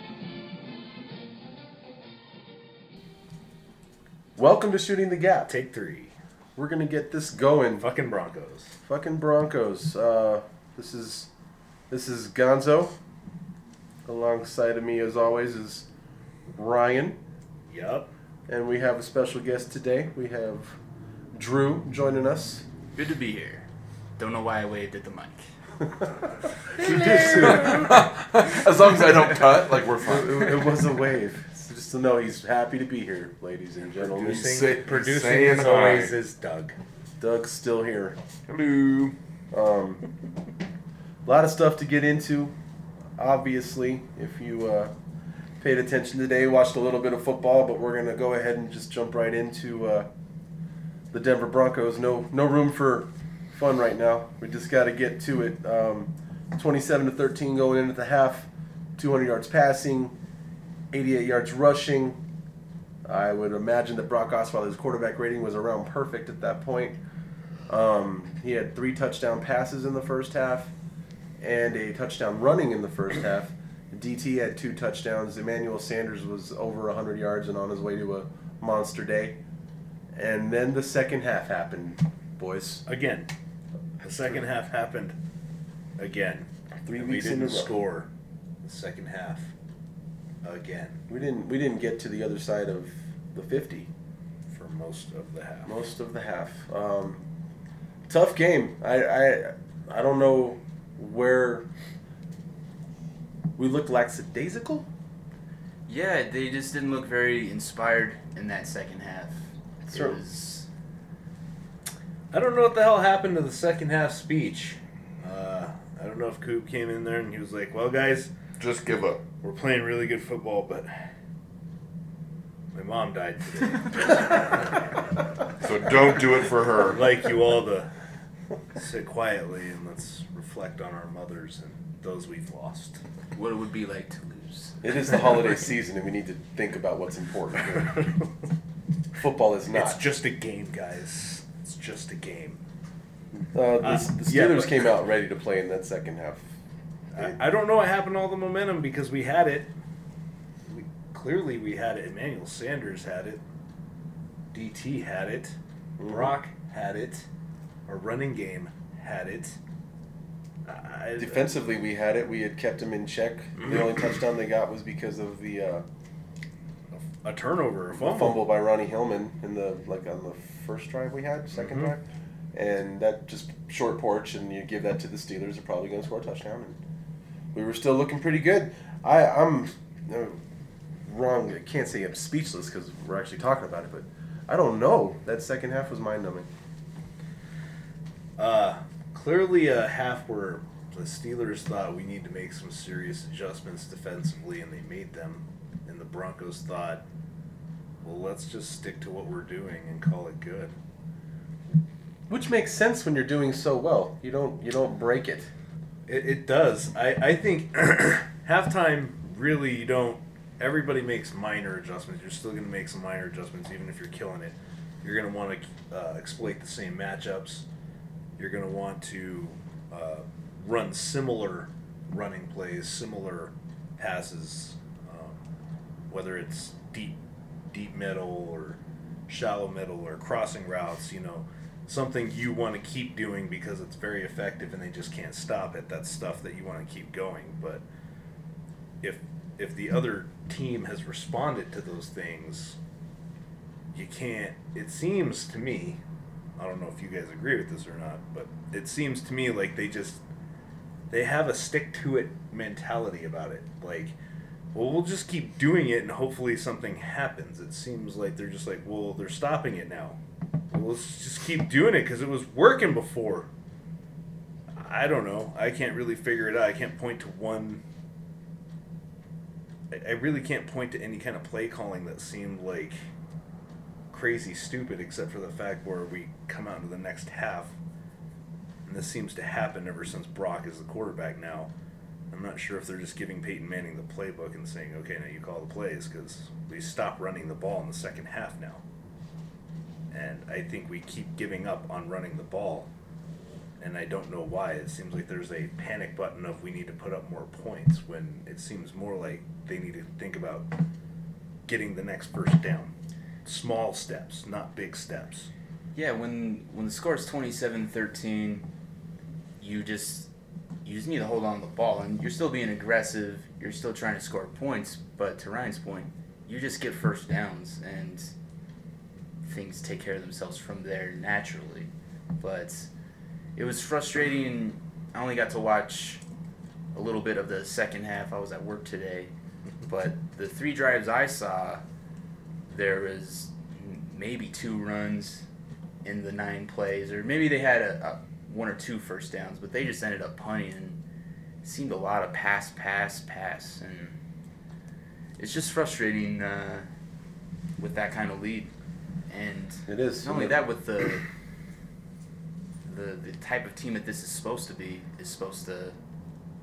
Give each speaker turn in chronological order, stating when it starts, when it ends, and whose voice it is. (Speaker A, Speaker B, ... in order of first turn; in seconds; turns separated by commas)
Speaker A: 4.3-5.5, Speaker B: 5.5-6.1, Speaker A: 6.5-7.9, Speaker B: 7.8-8.7, Speaker A: 8.8-11.3, Speaker A: 11.9-13.0, Speaker A: 14.1-15.9, Speaker A: 16.5-17.2, Speaker B: 17.7-18.1, Speaker A: 18.5-20.8, Speaker A: 21.3-22.6, Speaker C: 22.9-23.7, Speaker C: 24.2-25.4, Speaker A: 26.8-28.1, Speaker D: 26.8-30.7, Speaker B: 26.9-27.6, Speaker A: 30.0-34.7, Speaker B: 33.9-36.8, Speaker D: 34.2-36.1, Speaker A: 37.2-38.2, Speaker D: 38.5-39.1, Speaker A: 39.5-40.0, Speaker A: 41.2-42.5, Speaker A: 43.2-44.9, Speaker A: 45.6-50.1, Speaker A: 51.1-60.1, Speaker A: 60.9-62.2, Speaker A: 63.0-67.0, Speaker A: 67.7-70.7, Speaker A: 71.4-79.4, Speaker A: 80.1-82.8, Speaker B: 82.9-83.3, Speaker B: 84.0-85.2, Speaker B: 86.0-88.1, Speaker A: 86.8-87.7, Speaker B: 88.6-89.5, Speaker B: 90.4-91.0, Speaker A: 91.1-93.9, Speaker B: 94.5-95.7, Speaker A: 95.6-97.2, Speaker A: 98.1-101.7, Speaker A: 103.6-104.9, Speaker C: 105.9-110.7, Speaker A: 109.8-110.2, Speaker B: 112.3-118.3, Speaker D: 118.6-119.2, Speaker B: 119.4-121.0, Speaker B: 122.7-125.3, Speaker D: 125.6-127.0, Speaker B: 126.8-127.9, Speaker B: 128.7-133.0, Speaker C: 133.3-135.3, Speaker A: 134.8-138.0, Speaker B: 137.8-138.2, Speaker A: 139.1-140.0, Speaker B: 139.7-142.6, Speaker A: 143.5-146.5, Speaker B: 143.8-144.9, Speaker B: 147.1-149.7, Speaker B: 150.7-153.4, Speaker B: 154.5-157.2, Speaker A: 156.0-156.3, Speaker B: 157.9-159.6, Speaker B: 160.7-161.4, Speaker A: 161.2-165.8, Speaker B: 167.0-168.4, Speaker A: 167.9-172.0, Speaker B: 171.6-171.9, Speaker A: 172.5-176.8, Speaker A: 177.5-180.4, Speaker A: 181.0-186.5, Speaker B: 188.4-197.0, Speaker B: 198.0-200.7, Speaker A: 202.3-205.5, Speaker B: 206.1-217.6, Speaker B: 218.4-225.4, Speaker B: 226.1-227.2, Speaker B: 227.7-237.8, Speaker B: 239.0-242.8, Speaker B: 243.9-246.0, Speaker B: 246.6-250.2, Speaker B: 251.1-254.1, Speaker B: 254.7-260.2, Speaker B: 260.7-263.5, Speaker B: 264.8-267.8, Speaker B: 269.9-273.0, Speaker B: 274.1-277.7, Speaker B: 278.9-281.7, Speaker B: 282.3-288.8, Speaker B: 290.1-292.9, Speaker B: 293.8-300.7, Speaker B: 301.6-302.9, Speaker B: 303.4-305.5, Speaker C: 305.9-308.6, Speaker C: 309.6-310.3, Speaker C: 310.8-318.3, Speaker C: 319.4-321.9, Speaker C: 322.4-322.9, Speaker C: 323.6-326.2, Speaker C: 326.9-329.3, Speaker C: 329.9-331.8, Speaker C: 332.7-335.4, Speaker C: 336.0-341.0, Speaker C: 341.6-344.2, Speaker C: 345.4-346.9, Speaker C: 347.8-348.7, Speaker C: 349.3-351.3, Speaker A: 349.9-350.6, Speaker C: 352.9-356.0